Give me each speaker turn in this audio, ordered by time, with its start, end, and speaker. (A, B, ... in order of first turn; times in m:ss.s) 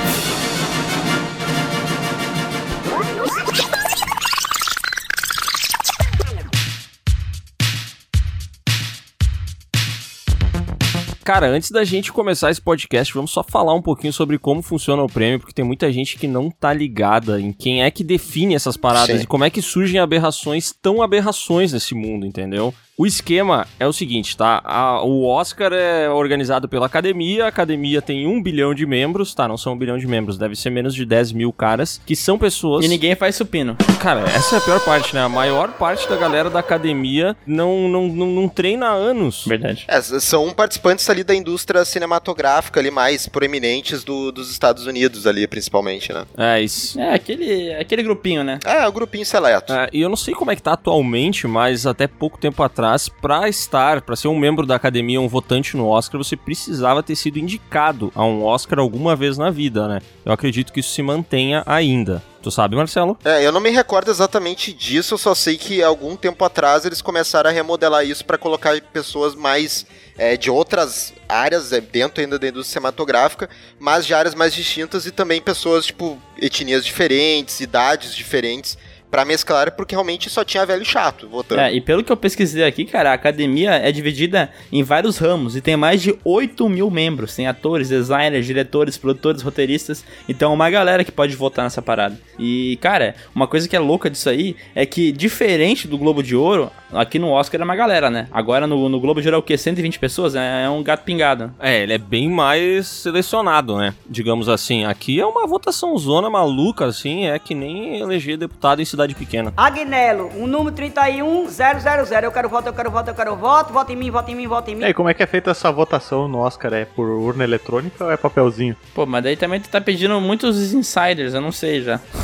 0:11.2-0:33.0 A
0:18.9-0:19.2 B
0:32.8-0:33.8 C
0:33.9-0:39.5 A
0:39.4-0:39.8 C
0:39.9-0:46.3 B
0:46.4-0:47.0 A
0:47.0-0:48.6 C
0:48.6-0:49.7 B
0:49.7-1:03.2 A
1:03.2-1:21.7 B
1:21.5-1:41.5 C
1:41.6-1:49.5 A
1:49.6-1:54.9 D
1:54.8-1:58.8 E
1:58.9-2:02.0 C